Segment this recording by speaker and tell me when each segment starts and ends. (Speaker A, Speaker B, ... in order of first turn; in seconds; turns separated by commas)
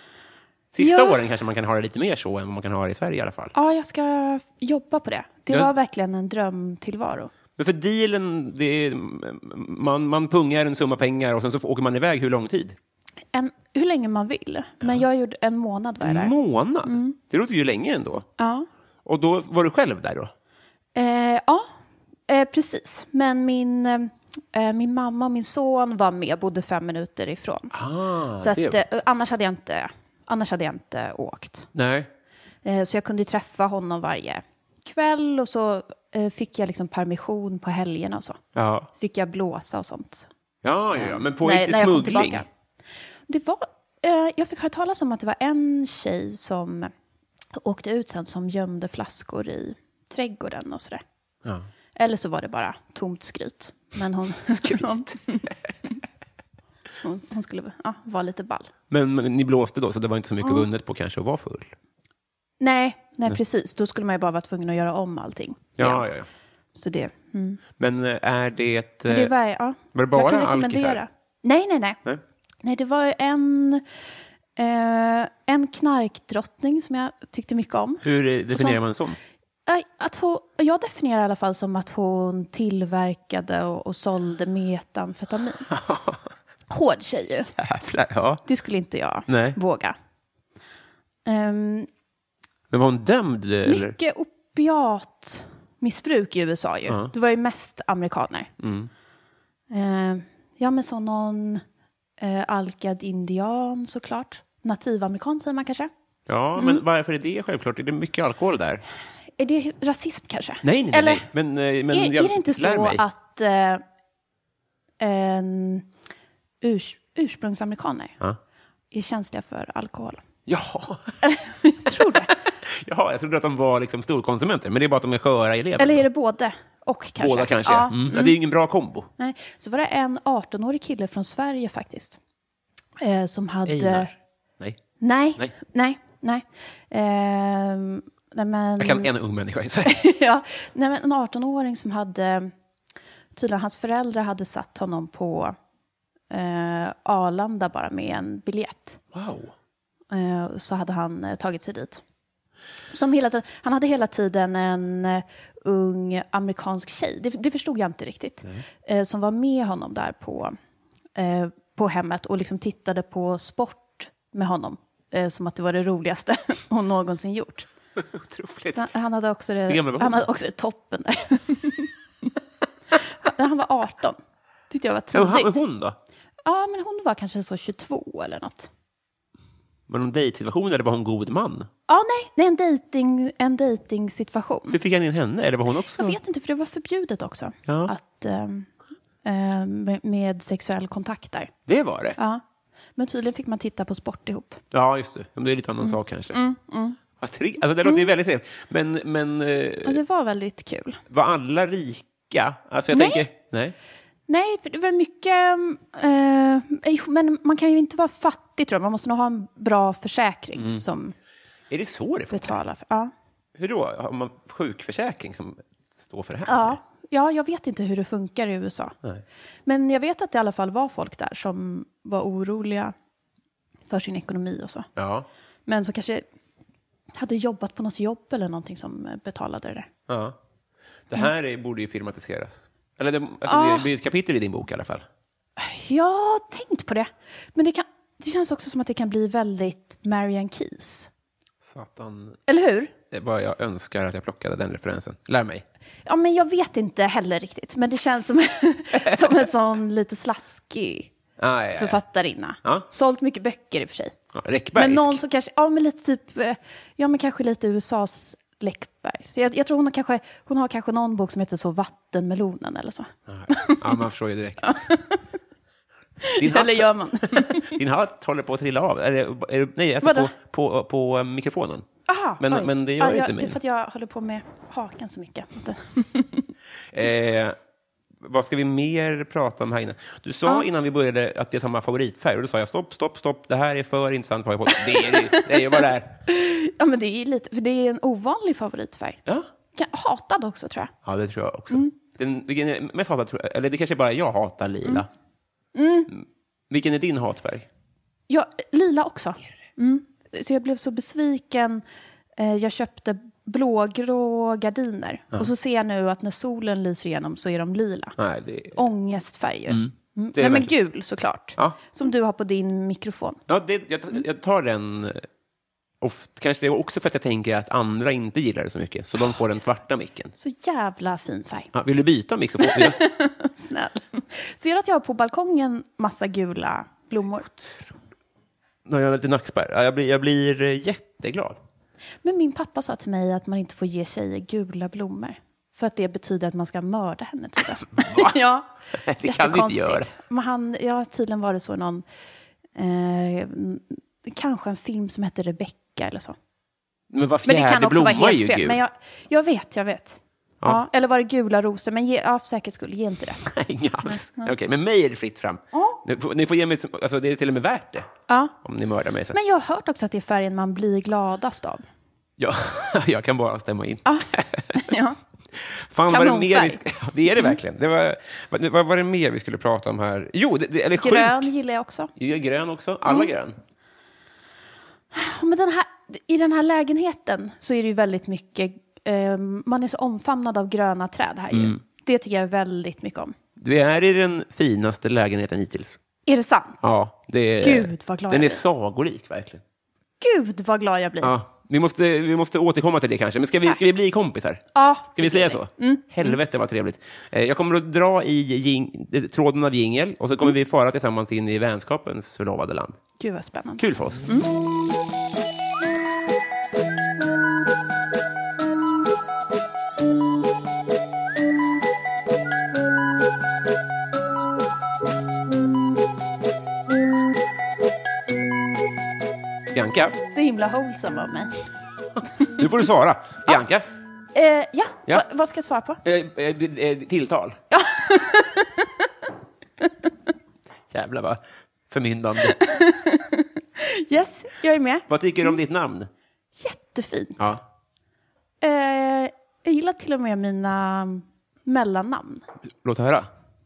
Speaker A: 0.7-3.5, Speaker B: 0.8-1.2, Speaker B: 3.5-7.3, Speaker A: 7.6-12.8, Speaker B: 13.3-16.3, Speaker A: 16.0-18.3, Speaker B: 16.9-17.2, Speaker B: 18.4-18.7, Speaker A: 19.1-20.3, Speaker B: 20.9-21.7, Speaker B: 22.3-27.7, Speaker A: 27.7-28.8, Speaker B: 28.4-31.7, Speaker A: 31.7-32.1, Speaker B: 32.6-38.4, Speaker A: 38.5-38.9, Speaker B: 39.0-40.3, Speaker A: 40.6-42.5, Speaker B: 40.9-42.5, Speaker B: 43.3-46.9, Speaker B: 47.5-51.0, Speaker B: 52.0-55.9, Speaker A: 54.5-55.5, Speaker B: 57.0-58.7, Speaker A: 58.9-61.7, Speaker B: 62.6-66.1, Speaker A: 65.8-66.3, Speaker B: 66.8-67.6, Speaker A: 67.8-69.3, Speaker B: 69.1-72.0, Speaker A: 69.9-71.0, Speaker B: 72.6-73.8, Speaker B: 74.6-78.8, Speaker A: 78.0-79.2, Speaker B: 79.7-85.7, Speaker A: 85.7-86.2, Speaker B: 86.7-87.5, Speaker A: 87.6-88.4, Speaker B: 88.5-90.0, Speaker A: 89.3-89.6, Speaker B: 91.3-91.9, Speaker A: 92.7-94.0, Speaker B: 93.7-98.5, Speaker A: 96.9-97.1, Speaker A: 98.6-98.9, Speaker B: 99.7-101.6, Speaker B: 102.2-105.9, Speaker A: 106.3-108.8, Speaker B: 106.6-106.8, Speaker B: 109.4-111.3, Speaker A: 110.6-113.0, Speaker B: 111.9-113.8, Speaker B: 115.0-115.9, Speaker B: 116.6-118.2, Speaker B: 118.9-120.2, Speaker A: 120.5-121.2, Speaker B: 121.2-122.3, Speaker A: 121.9-126.1, Speaker B: 125.8-128.3, Speaker A: 127.2-129.1, Speaker B: 129.2-132.2, Speaker B: 133.0-134.1, Speaker A: 133.7-134.8, Speaker B: 135.0-139.1, Speaker A: 138.8-140.0, Speaker B: 139.9-142.5, Speaker B: 143.3-145.6, Speaker B: 146.3-149.0, Speaker A: 149.1-149.5, Speaker B: 150.1-152.0, Speaker B: 152.9-160.6, Speaker B: 161.2-167.7, Speaker A: 168.0-168.9, Speaker B: 168.7-171.9, Speaker A: 169.7-170.2, Speaker B: 173.1-174.2, Speaker B: 174.7-175.6, Speaker A: 175.1-176.0, Speaker B: 176.4-178.7, Speaker A: 179.9-181.7, Speaker B: 181.9-184.8, Speaker A: 184.7-186.2, Speaker B: 186.0-188.7, Speaker A: 187.7-187.9, Speaker B: 189.2-191.5, Speaker A: 191.7-192.2, Speaker B: 192.2-192.4, Speaker B: 193.0-194.6, Speaker A: 194.7-196.4, Speaker B: 195.8-197.0, Speaker A: 197.2-200.0, Speaker B: 199.8-201.0, Speaker A: 201.1-203.8, Speaker B: 202.9-203.3, Speaker B: 204.3-211.1, Speaker A: 210.6-210.8, Speaker A: 211.7-212.6, Speaker B: 212.3-213.1, Speaker A: 213.6-216.8, Speaker B: 216.5-218.9, Speaker B: 219.7-222.9, Speaker B: 223.9-224.9, Speaker A: 225.0-225.3, Speaker B: 225.7-226.2, Speaker B: 227.2-229.9, Speaker A: 230.1-230.4, Speaker A: 231.1-235.1, Speaker B: 233.5-233.9, Speaker B: 235.6-241.1, Speaker A: 241.6-242.4, Speaker B: 242.5-242.9, Speaker A: 243.1-245.7, Speaker B: 246.1-251.1, Speaker A: 248.9-249.4, Speaker A: 251.4-252.0, Speaker B: 251.8-254.2, Speaker A: 254.3-255.2, Speaker B: 254.8-264.0, Speaker A: 263.3-264.7, Speaker B: 264.6-265.2, Speaker B: 266.2-267.8, Speaker A: 266.4-271.9, Speaker B: 270.0-270.3, Speaker B: 272.1-276.5, Speaker A: 272.4-273.6, Speaker A: 276.9-277.6, Speaker A: 278.2-286.2, Speaker B: 284.8-289.2, Speaker B: 289.7-290.9, Speaker A: 291.1-295.1, Speaker B: 295.7-296.1, Speaker A: 296.1-297.7, Speaker B: 298.3-301.8, Speaker B: 302.4-308.2, Speaker A: 308.2-308.8, Speaker B: 308.7-313.4, Speaker A: 309.7-310.7, Speaker A: 313.5-315.3, Speaker A: 316.0-320.3, Speaker B: 320.4-321.7, Speaker A: 321.7-323.0, Speaker B: 322.6-327.5, Speaker A: 327.5-327.9, Speaker A: 328.9-331.6, Speaker B: 332.2-338.7, Speaker A: 338.0-338.4, Speaker A: 338.9-340.1, Speaker B: 339.2-342.0, Speaker B: 342.8-346.4, Speaker A: 347.1-348.8, Speaker B: 347.4-353.4, Speaker A: 353.4-358.1, Speaker B: 354.1-354.5, Speaker B: 355.7-356.0, Speaker B: 358.3-358.6, Speaker A: 358.6-359.4, Speaker B: 359.3-361.8, Speaker A: 362.4-364.9, Speaker B: 364.1-365.2, Speaker A: 365.6-371.5, Speaker B: 366.1-366.9, Speaker B: 371.0-372.1, Speaker A: 372.2-373.6, Speaker B: 375.1-383.4, Speaker A: 381.5-381.8, Speaker A: 383.6-386.0, Speaker B: 386.3-386.9, Speaker A: 386.8-389.6, Speaker B: 387.6-388.6, Speaker B: 390.2-391.4, Speaker A: 391.2-403.0, Speaker B: 394.7-396.4, Speaker B: 403.2-404.5, Speaker A: 403.8-404.3, Speaker A: 419.7-420.2, Speaker B: 420.3-421.6, Speaker A: 422.6-423.9, Speaker B: 424.4-426.0, Speaker A: 426.0-427.6, Speaker B: 427.7-429.0, Speaker A: 430.9-432.6, Speaker B: 432.4-435.6, Speaker A: 435.1-436.1, Speaker B: 436.6-437.6, Speaker B: 438.6-442.5, Speaker A: 442.8-443.3